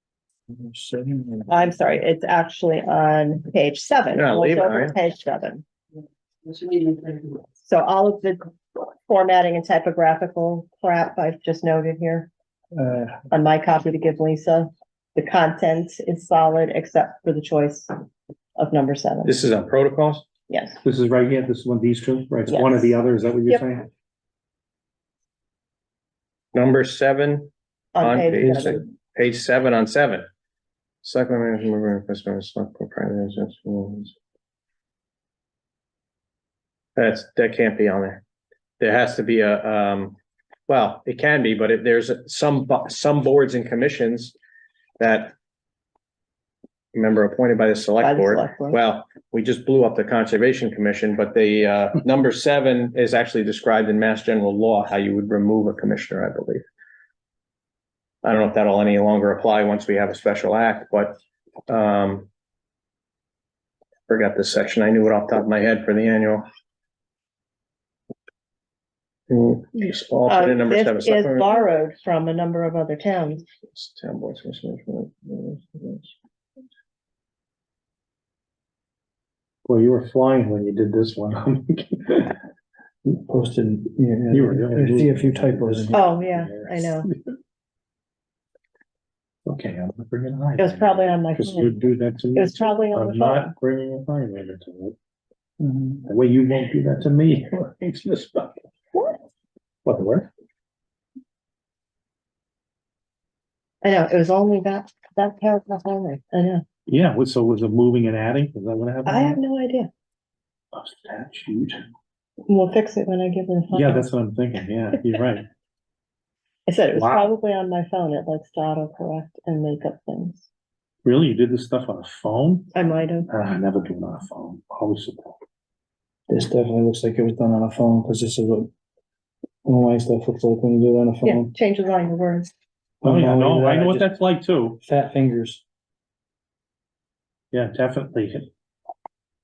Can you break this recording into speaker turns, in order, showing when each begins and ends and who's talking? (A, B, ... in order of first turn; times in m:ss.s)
0:00.5-0:01.8 A
0:01.5-0:05.6 B
0:04.1-0:04.9 C
0:06.4-0:12.3 B
0:12.7-0:13.2 A
0:13.3-0:17.9 B
0:18.6-0:19.4 B
0:19.2-0:20.2 C
0:20.5-0:20.8 B
0:20.8-0:23.9 D
0:22.5-0:22.9 B
0:26.5-0:30.2 C
0:27.9-0:28.8 B
0:31.0-0:34.1 C
0:37.0-0:38.2 C
0:38.8-0:40.2 C
0:40.7-0:44.3 C
0:45.0-0:45.3 C
0:46.9-0:56.6 C
0:48.0-0:48.8 B
0:58.2-1:02.3 C
1:04.1-1:06.4 C
1:09.3-1:11.6 C
1:10.2-1:13.4 B
1:13.6-1:16.1 C
1:19.6-1:22.4 D
1:23.0-1:26.0 A
1:24.3-1:27.3 D
1:25.9-1:27.1 B
1:29.4-1:35.0 D
1:30.6-1:31.8 B
1:32.3-1:33.5 B
1:35.6-1:36.1 A
1:36.1-1:38.6 D
1:39.8-1:40.3 D
1:43.8-1:46.6 B
1:46.9-1:49.4 D
1:49.0-1:49.9 B
1:50.7-1:51.8 D
1:52.5-1:54.0 B
1:53.7-1:55.4 D
1:56.7-2:00.4 B
1:57.0-1:57.3 D
2:01.0-2:02.7 D
2:02.7-2:03.3 B
2:03.3-2:05.4 D
2:06.3-2:08.7 A
2:09.6-2:11.5 A
2:11.2-2:12.5 B
2:13.0-2:14.1 A
2:13.0-2:14.8 D
2:14.8-2:15.6 A
2:17.5-2:18.5 D